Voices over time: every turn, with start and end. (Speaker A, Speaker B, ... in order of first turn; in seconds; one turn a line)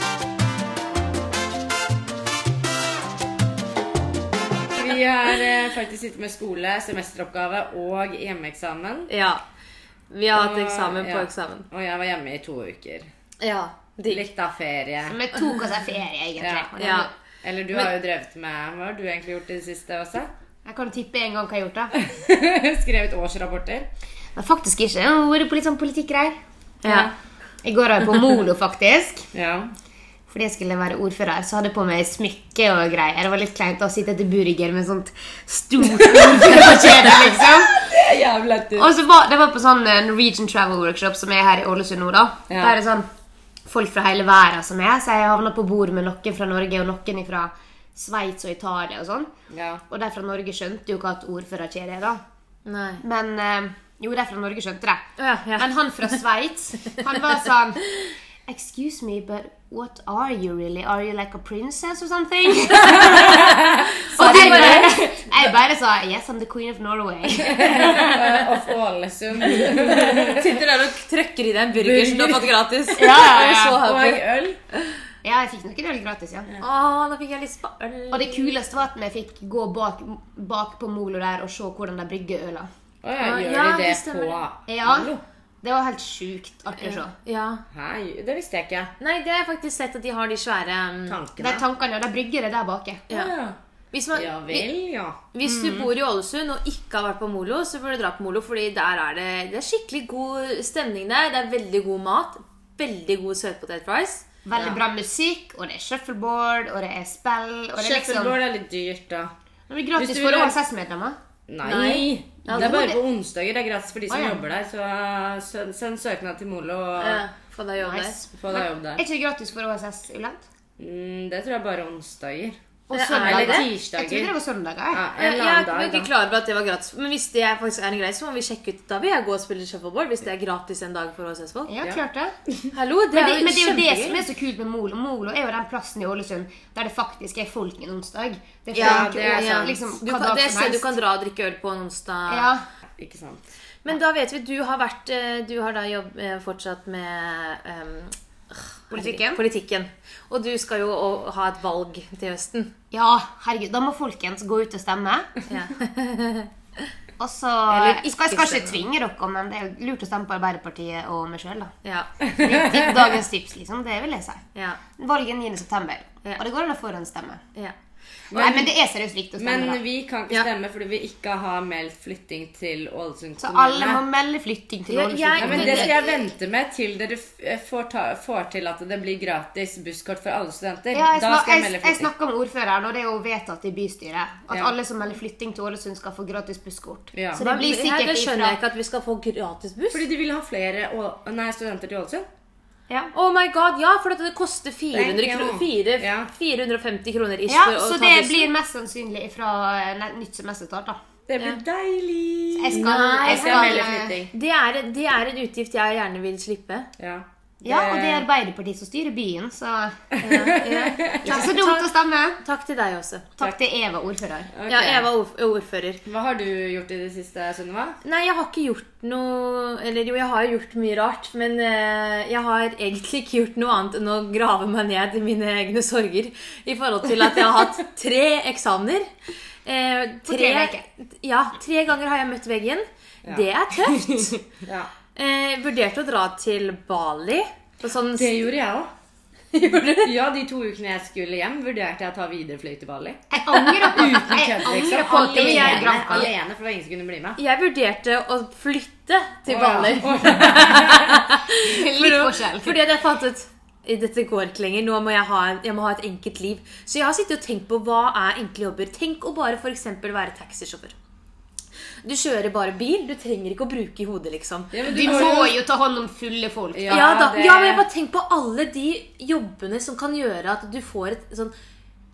Speaker A: 4.7-9.1
Speaker B: 9.1-9.4
Speaker B: 10.1-11.7
Speaker A: 10.3-13.1
Speaker B: 13.4-14.2
Speaker A: 14.1-15.2
Speaker C: 15.1-17.1
Speaker A: 16.4-16.7
Speaker B: 16.8-17.1
Speaker A: 17.4-20.3
Speaker C: 20.6-21.9
Speaker A: 22.0-23.9
Speaker C: 24.4-26.4
Speaker B: 26.8-27.1
Speaker A: 26.8-27.1
Speaker C: 27.6-29.3
Speaker A: 29.3-29.7
Speaker C: 30.3-37.8
Speaker A: 35.9-38.9
Speaker C: 38.8-43.0
Speaker A: 42.5-42.8
Speaker C: 43.6-49.3
Speaker A: 49.5-49.8
Speaker C: 49.9-52.2
Speaker B: 52.6-53.0
Speaker C: 53.0-63.5
Speaker B: 55.2-55.7
Speaker A: 62.8-65.0
Speaker B: 62.9-65.1
Speaker C: 64.2-68.5
Speaker A: 67.4-70.6
Speaker B: 69.8-74.2
Speaker A: 71.8-74.6
Speaker C: 73.0-73.8
Speaker C: 75.2-76.5
Speaker B: 76.6-78.6
Speaker C: 78.1-82.7
Speaker A: 83.0-85.2
Speaker B: 83.2-84.4
Speaker C: 84.7-85.1
Speaker C: 85.6-87.1
Speaker B: 86.8-87.6
Speaker A: 87.7-88.9
Speaker B: 89.0-91.2
Speaker A: 91.1-91.6
Speaker C: 91.4-93.0
Speaker B: 93.1-93.3
Speaker A: 93.1-93.6
Speaker B: 93.9-94.7
Speaker A: 94.1-95.8
Speaker B: 95.3-104.2
Speaker C: 104.4-108.3
Speaker A: 107.8-109.3
Speaker C: 109.7-111.2
Speaker A: 110.0-110.6
Speaker A: 111.5-117.2
Speaker B: 111.7-112.8
Speaker C: 111.7-113.0
Speaker C: 114.1-114.4
Speaker B: 117.0-118.2
Speaker C: 117.9-120.4
Speaker A: 118.3-119.0
Speaker A: 120.8-122.6
Speaker C: 122.9-125.0
Speaker B: 122.9-123.7
Speaker A: 123.2-124.3
Speaker A: 124.9-126.1
Speaker B: 125.2-131.7
Speaker C: 131.7-132.3
Speaker A: 131.8-132.7
Speaker B: 132.7-134.2
Speaker C: 133.1-141.0
Speaker A: 138.7-139.8
Speaker B: 138.7-142.5
Speaker C: 142.3-142.6
Speaker A: 143.0-143.4
Speaker B: 143.8-152.7
Speaker C: 148.9-149.4
Speaker C: 152.9-155.4
Speaker B: 155.5-156.9
Speaker C: 157.2-161.7
Speaker B: 157.7-158.8
Speaker B: 161.8-162.1
Speaker A: 162.2-163.1
Speaker C: 162.4-164.4
Speaker B: 164.5-164.8
Speaker C: 165.0-167.4
Speaker A: 168.3-168.7
Speaker C: 168.3-169.8
Speaker A: 169.4-174.0
Speaker C: 173.4-176.1
Speaker B: 174.9-176.1
Speaker A: 175.4-182.1
Speaker C: 180.9-188.6
Speaker A: 187.1-187.4
Speaker B: 187.4-190.0
Speaker A: 189.9-192.2
Speaker B: 193.1-198.5
Speaker A: 194.9-196.3
Speaker C: 197.5-201.0
Speaker A: 201.3-204.3
Speaker C: 202.5-204.2
Speaker B: 202.7-206.9
Speaker A: 207.0-208.2
Speaker C: 207.6-210.2
Speaker A: 210.2-211.5
Speaker B: 210.2-213.4
Speaker C: 211.2-212.4
Speaker C: 213.4-214.5
Speaker A: 214.5-215.1
Speaker B: 214.7-216.0
Speaker A: 216.0-218.0
Speaker B: 218.0-229.1
Speaker B: 229.6-234.4
Speaker C: 230.2-230.8
Speaker A: 234.6-234.9
Speaker B: 235.1-238.5
Speaker A: 238.2-238.9
Speaker B: 239.5-240.1
Speaker A: 240.0-247.4
Speaker C: 243.3-246.3
Speaker B: 243.6-243.8
Speaker B: 245.2-246.3
Speaker B: 247.4-260.9
Speaker A: 249.5-251.2
Speaker C: 251.5-252.8
Speaker B: 262.0-265.2
Speaker A: 264.7-265.5
Speaker C: 264.8-267.1
Speaker A: 266.7-267.8
Speaker B: 266.9-271.5